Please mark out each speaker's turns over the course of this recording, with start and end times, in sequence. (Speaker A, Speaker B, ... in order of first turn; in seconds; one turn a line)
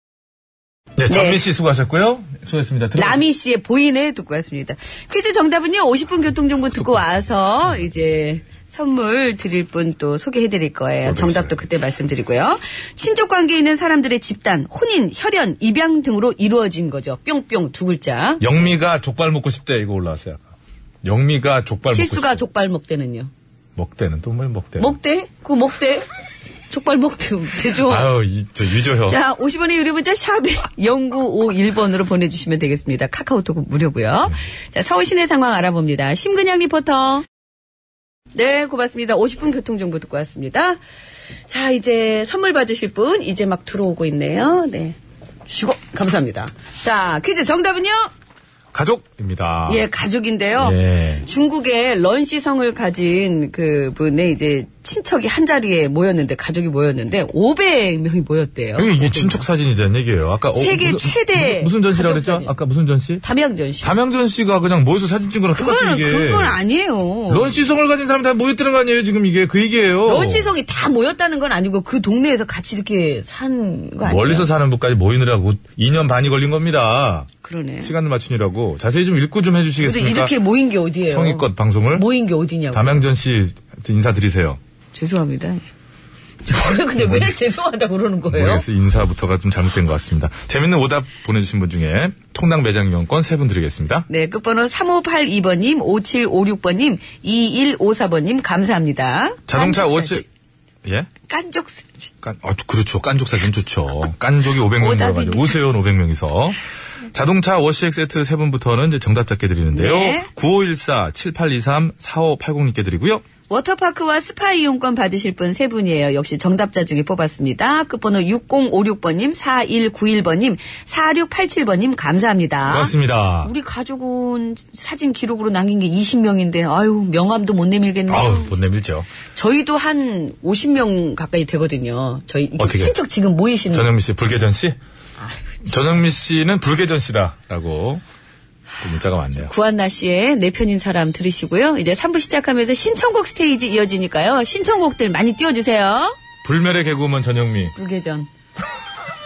Speaker A: 1.0-3.2
Speaker B: 1.1-1.4
Speaker B: 3.0-18.5
Speaker A: 11.0-11.6
Speaker A: 18.4-20.4
Speaker A: 21.0-22.4
Speaker B: 21.9-23.3
Speaker A: 23.8-24.9
Speaker B: 24.8-26.1
Speaker B: 26.7-28.1
Speaker A: 27.8-29.2
Speaker B: 29.1-37.2
Speaker B: 38.3-40.8
Speaker B: 41.5-45.0
Speaker B: 45.5-48.1
Speaker A: 48.7-49.9
Speaker B: 49.7-59.4
Speaker A: 50.6-51.2
Speaker A: 58.8-63.2
Speaker B: 60.5-62.5
Speaker B: 63.2-63.9
Speaker A: 63.8-66.6
Speaker B: 65.5-67.6
Speaker A: 67.3-70.5
Speaker B: 70.0-74.5
Speaker A: 74.0-77.3
Speaker B: 77.4-77.9
Speaker A: 77.8-80.3
Speaker B: 79.8-83.0
Speaker A: 81.1-82.0
Speaker A: 82.7-84.6
Speaker B: 84.9-85.7
Speaker B: 86.5-88.6
Speaker A: 87.0-87.3
Speaker A: 88.3-94.1
Speaker B: 94.1-100.2
Speaker A: 99.5-100.2
Speaker A: 100.8-101.1
Speaker B: 101.2-102.1
Speaker A: 102.2-106.6
Speaker B: 104.8-105.6
Speaker A: 107.1-113.2
Speaker B: 109.7-110.3
Speaker B: 113.5-128.5
Speaker A: 122.7-123.5
Speaker A: 128.1-129.1
Speaker B: 129.3-133.9
Speaker A: 132.6-132.9
Speaker A: 133.7-134.8
Speaker B: 135.2-135.7
Speaker A: 135.7-138.0
Speaker A: 138.8-139.5
Speaker B: 139.4-146.2
Speaker A: 146.4-147.7
Speaker B: 147.7-148.3